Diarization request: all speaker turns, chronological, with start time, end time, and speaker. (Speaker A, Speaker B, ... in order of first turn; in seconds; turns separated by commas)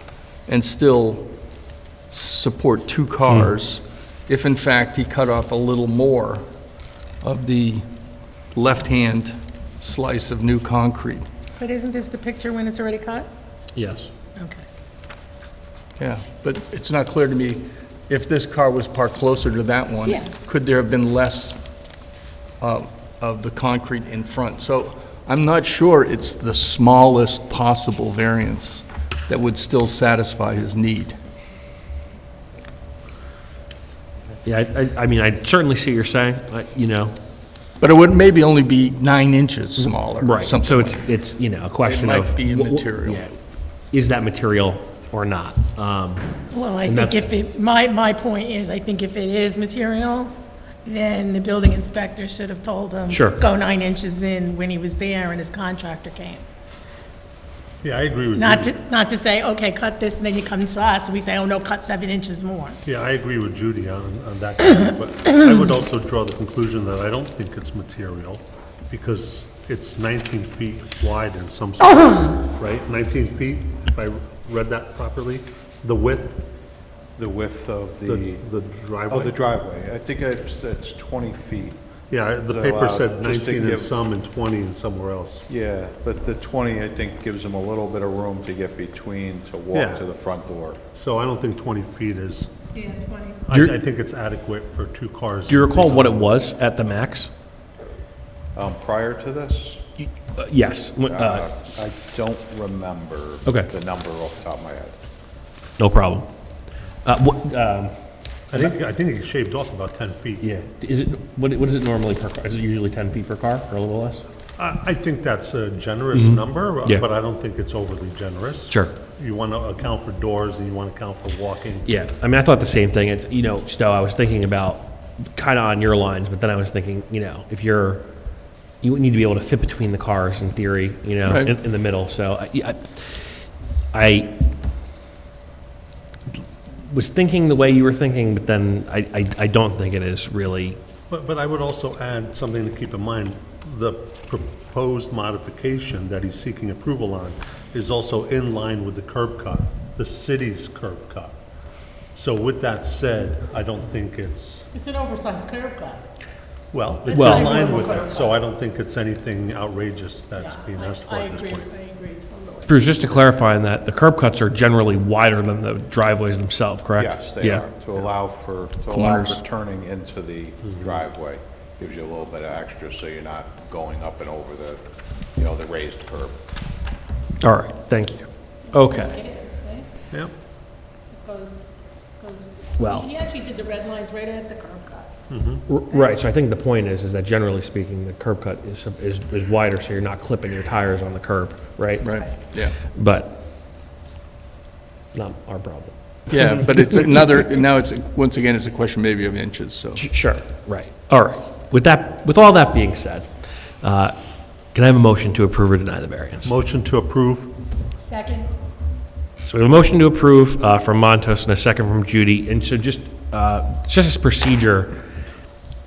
Speaker A: 0.5-1.4, Speaker A: 2.1-6.4, Speaker A: 7.2-7.9, Speaker A: 8.5-11.3, Speaker B: 11.6-13.3, Speaker C: 13.7-14.1, Speaker B: 14.3-14.6, Speaker A: 16.0-21.6, Speaker A: 22.6-31.2, Speaker C: 34.4-37.1, Speaker A: 37.8-41.0, Speaker C: 39.8-43.4, Speaker A: 41.8-43.2, Speaker C: 43.9-47.3, Speaker B: 46.5-50.3, Speaker B: 50.8-56.4, Speaker C: 53.1-53.4, Speaker D: 57.8-58.8, Speaker B: 58.3-62.8, Speaker D: 62.8-76.4, Speaker E: 77.2-78.4, Speaker D: 78.1-79.4, Speaker E: 79.1-81.8, Speaker D: 82.1-85.4, Speaker E: 82.5-83.9, Speaker E: 85.5-90.8, Speaker D: 89.7-90.0, Speaker D: 90.9-92.5, Speaker B: 92.7-93.4, Speaker D: 93.4-96.4, Speaker C: 95.5-97.3, Speaker E: 98.5-99.8, Speaker C: 100.0-101.4, Speaker E: 101.1-104.9, Speaker C: 105.8-106.3, Speaker C: 107.0-107.9, Speaker D: 108.5-110.5, Speaker C: 110.4-114.2, Speaker D: 114.6-121.9, Speaker C: 116.1-117.0, Speaker C: 118.7-118.9, Speaker C: 121.8-128.1, Speaker C: 128.8-133.2, Speaker A: 131.2-131.5, Speaker C: 133.9-134.3, Speaker C: 136.8-140.8, Speaker D: 141.1-151.3, Speaker D: 152.1-154.7, Speaker B: 154.7-156.0, Speaker D: 156.7-161.7, Speaker B: 157.0-158.4, Speaker C: 157.1-157.5, Speaker B: 160.3-163.0, Speaker C: 162.7-167.7, Speaker E: 167.0-174.8, Speaker A: 168.9-169.4, Speaker E: 175.3-176.3, Speaker C: 177.4-179.2, Speaker B: 178.7-179.9, Speaker B: 181.1-181.7, Speaker B: 182.2-185.1, Speaker C: 182.8-183.1, Speaker D: 185.3-185.6, Speaker C: 185.7-192.2, Speaker A: 192.0-192.8, Speaker C: 192.8-193.4, Speaker C: 195.1-195.9, Speaker A: 196.3-200.1, Speaker C: 199.9-203.3, Speaker C: 203.8-206.5, Speaker D: 206.4-207.6, Speaker B: 208.0-208.5, Speaker C: 209.4-215.0